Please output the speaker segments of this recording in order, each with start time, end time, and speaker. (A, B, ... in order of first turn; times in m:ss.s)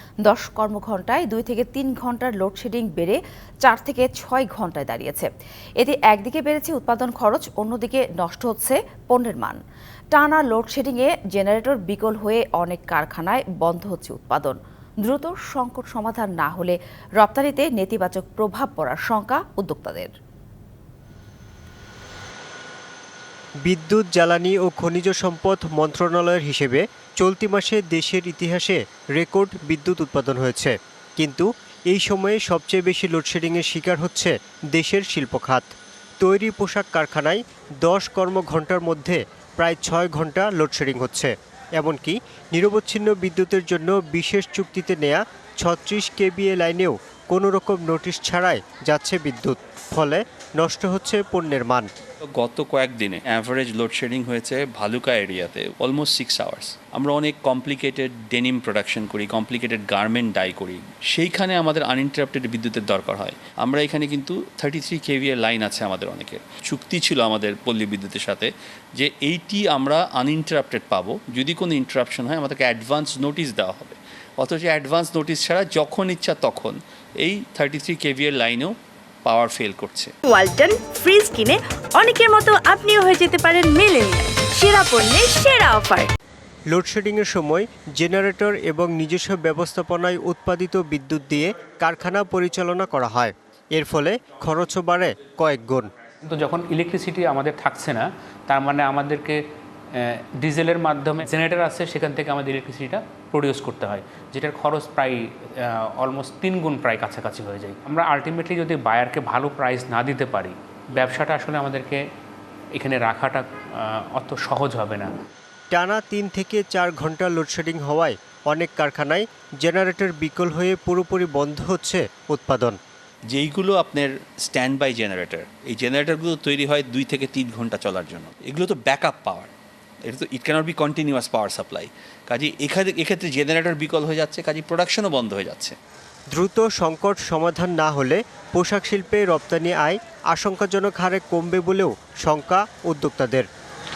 0:00.2-0:05.3 A
0:05.8-0:09.6 A
0:10.1-0:20.1 A
0:23.6-0:35.7 B
0:36.2-0:51.9 B
0:52.2-1:18.7 C
1:19.2-1:20.1 C
1:20.3-1:26.1 D
1:26.7-1:35.9 B
1:36.2-1:39.4 E
1:39.9-1:52.0 E
1:52.8-1:55.1 E
1:55.7-2:02.8 B
2:03.3-2:09.5 C
2:10.1-2:15.8 C
2:16.3-2:23.4 B